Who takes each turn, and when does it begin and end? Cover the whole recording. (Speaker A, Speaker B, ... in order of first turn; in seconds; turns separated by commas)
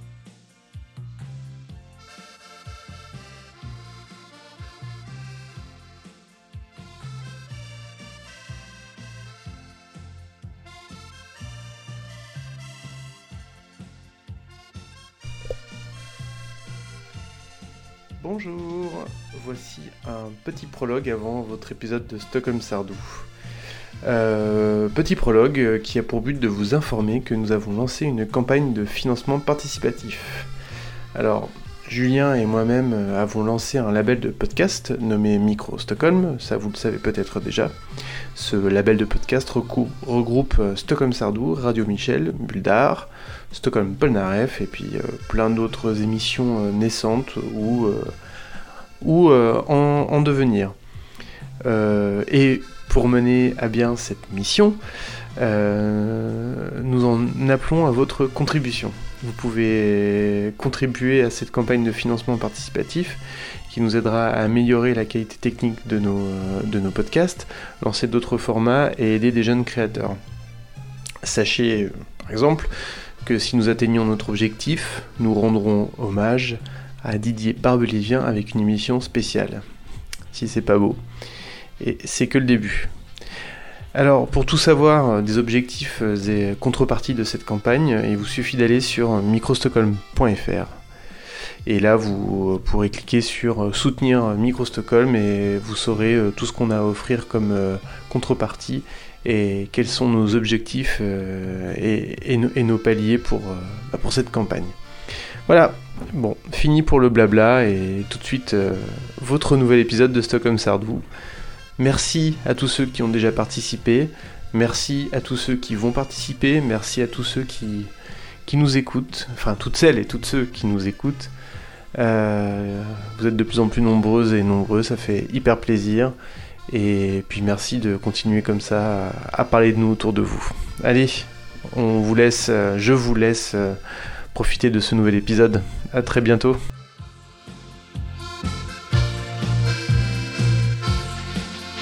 Speaker A: 18.2-23.3, Speaker A: 24.0-30.5, Speaker A: 31.1-37.7, Speaker A: 38.3-48.1, Speaker A: 49.0-50.7, Speaker A: 51.6-54.8, Speaker A: 55.4-70.2, Speaker A: 71.2-72.7, Speaker A: 73.2-79.6, Speaker A: 80.3-81.0, Speaker A: 81.8-82.9, Speaker A: 83.9-90.8, Speaker A: 91.7-104.7, Speaker A: 105.5-111.0, Speaker A: 111.8-117.9, Speaker A: 118.5-121.3, Speaker A: 121.9-126.1, Speaker A: 126.7-133.8, Speaker A: 134.3-136.6